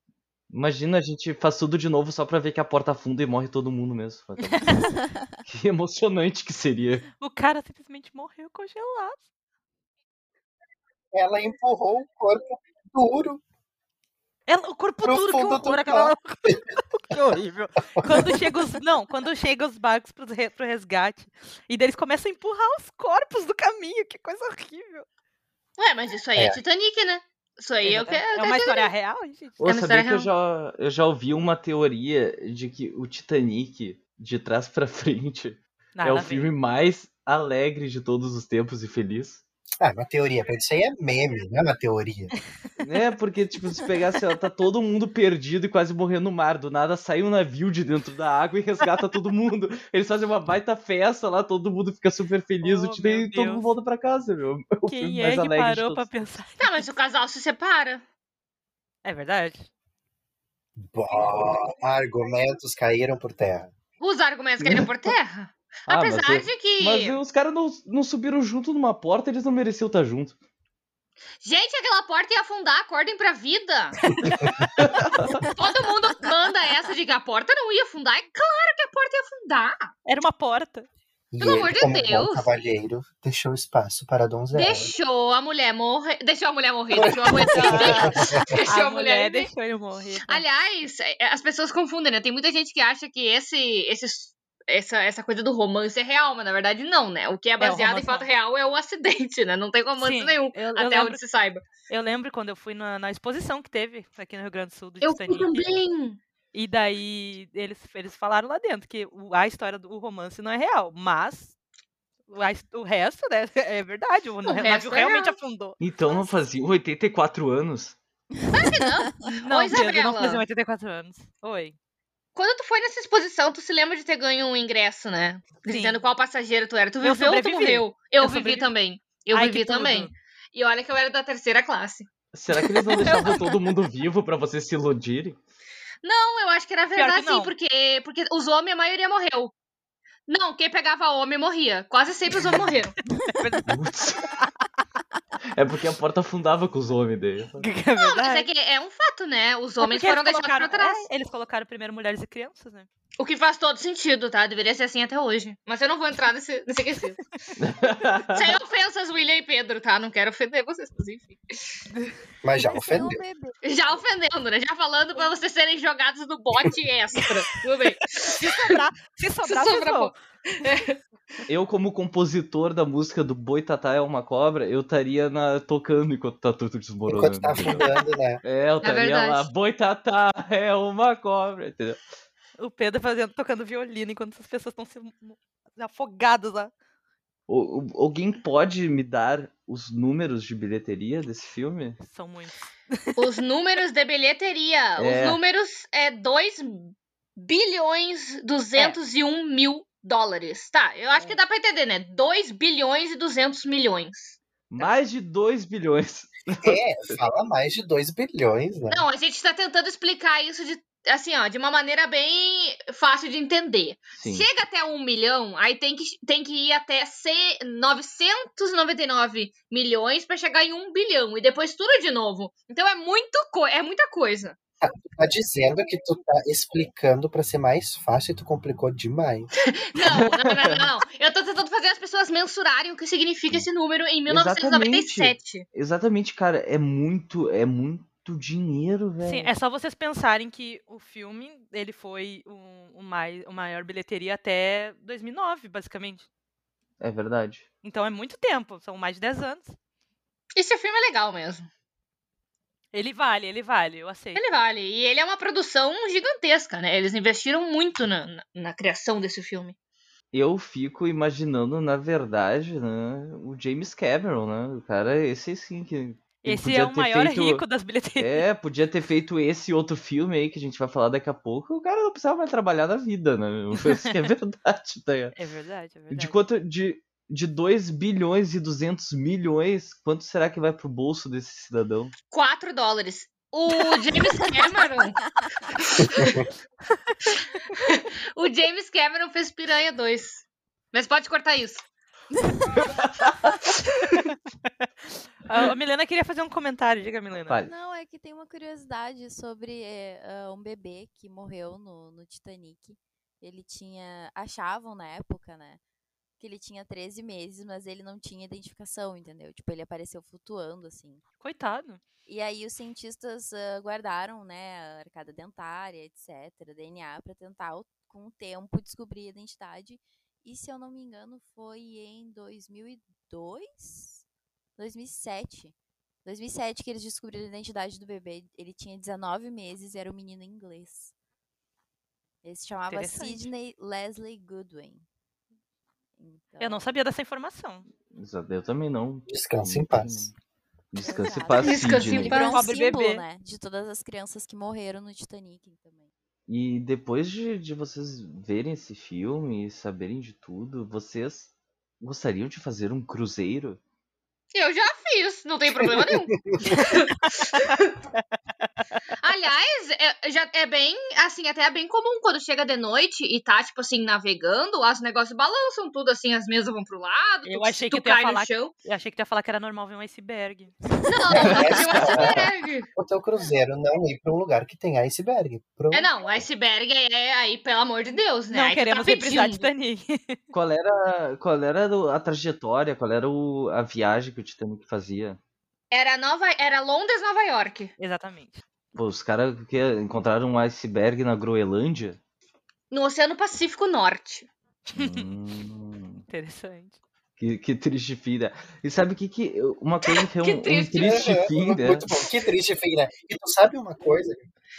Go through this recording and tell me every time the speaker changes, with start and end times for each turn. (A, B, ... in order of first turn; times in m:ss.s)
0:00.5-0:04.7 A
0:04.4-0:04.8 B
0:04.7-0:05.3 C
0:05.4-0:07.1 A
0:07.2-0:09.2 B
0:11.1-0:13.4 D
0:14.5-0:25.0 B
0:15.0-0:16.6 D
0:18.0-0:18.4 D
0:25.8-0:28.9 E
0:26.3-0:26.6 D
0:27.8-0:29.6 B
0:29.6-0:39.4 A
0:29.6-0:30.3 E
0:35.9-0:36.5 B
0:39.8-0:42.3 D
0:42.8-0:56.1 A
0:52.6-0:53.7 B
0:54.8-0:56.9 B
0:56.6-0:58.0 E
0:59.0-0:59.7 B
1:00.8-1:03.7 D
1:04.0-1:07.2 E
1:05.9-1:10.4 A
1:11.4-1:14.0 E
1:14.2-1:14.6 B
1:14.7-1:15.4 A
1:15.5-1:19.9 E
1:20.0-1:20.9 B
1:21.3-1:24.9 D
1:21.4-1:22.4 E
1:24.5-1:29.5 E
1:26.9-1:28.6 D
1:27.4-1:30.4 B
1:30.3-1:41.6 E
1:37.6-1:38.3 B
1:40.0-1:41.2 B
1:41.9-1:45.8 B
1:45.0-1:46.2 E
1:46.5-1:51.5 B
1:52.3-1:56.3 B
1:54.4-1:55.3 E
1:55.8-1:58.0 A
1:58.4-1:59.2 C
1:58.5-2:00.4 E
1:59.2-2:01.7 B
2:02.3-2:12.1 E
2:05.6-2:06.0 B
2:07.0-2:08.7 B
2:09.3-2:10.1 B
2:12.3-2:15.4 A
2:12.8-2:13.6 E
2:13.0-2:13.3 B
2:16.0-2:19.5 E
2:17.0-2:17.5 B
2:20.3-2:23.0 E
2:23.2-2:23.5 C
2:23.2-2:23.7 B
2:23.6-2:24.3 A
2:24.2-2:24.8 B
2:25.5-2:27.7 A
2:27.6-2:28.5 B
2:28.0-2:31.1 E
2:29.8-2:32.9 B
2:33.2-2:37.2 E
2:37.6-2:38.5 A
2:38.3-2:41.8 E
2:42.4-2:43.2 D
2:42.6-2:44.0 C
2:43.6-2:48.8 E
2:47.8-2:50.1 B
2:49.4-2:51.0 E
2:51.5-2:57.9 A
2:57.1-2:58.4 D
2:57.8-2:58.1 B
2:58.4-3:02.0 A
2:58.8-2:59.5 E
3:02.6-3:06.7 B
3:07.5-3:12.0 A
3:12.0-3:13.2 B
3:13.2-3:24.4 E
3:15.0-3:15.4 A
3:21.1-3:21.4 B
3:24.7-3:27.2 A
3:26.6-3:29.0 D
3:28.9-3:44.6 E
3:34.1-3:34.5 A
3:44.8-3:49.5 D
3:49.7-3:55.6 E
3:50.0-3:50.9 A
3:54.3-3:59.5 A
3:59.2-4:06.3 B
4:07.0-4:07.6 A
4:07.8-4:09.8 B
4:10.6-4:11.7 E
4:12.9-4:14.6 B
4:14.4-4:19.7 E
4:20.3-4:27.6 A
4:26.4-4:28.4 B
4:28.2-4:35.3 A
4:35.3-4:36.4 B
4:36.1-4:42.1 A
4:42.3-4:45.2 E
4:45.7-4:46.4 E
4:46.2-4:46.4 D
4:47.3-4:50.4 E
4:50.9-4:51.8 E
4:52.3-4:52.9 C
4:52.9-4:53.5 A
4:55.4-4:57.6 B
4:57.6-5:05.8 C
5:06.4-5:11.2 C
5:11.4-5:12.0 B
5:12.2-5:24.2 C
5:24.8-5:25.7 C
5:26.2-5:31.1 C
5:32.4-5:35.0 C
5:32.9-5:33.5 B
5:36.2-5:36.8 C
5:36.6-5:37.9 B
5:38.1-5:40.4 A
5:39.3-5:40.3 D
5:40.9-5:42.4 A
5:41.0-5:46.1 C
5:41.5-5:42.6 E
5:42.3-5:43.2 B
5:46.5-5:53.8 A
5:54.5-5:57.9 E
5:55.7-5:56.8 D
5:57.6-5:59.0 B
5:59.2-6:08.7 E
6:07.4-6:10.8 B
6:11.0-6:12.0 C
6:11.0-6:12.9 E
6:11.3-6:16.4 D
6:12.0-6:12.4 A
6:15.9-6:19.7 E
6:18.5-6:20.4 B
6:20.5-6:25.4 A
6:25.9-6:27.9 E
6:28.0-6:28.6 B
6:28.9-6:32.2 A
6:32.9-6:34.5 E
6:34.9-6:35.3 B
6:34.9-6:36.2 A
6:36.3-6:37.0 B
6:37.4-6:42.1 A
6:40.1-6:41.3 E
6:41.0-6:44.4 D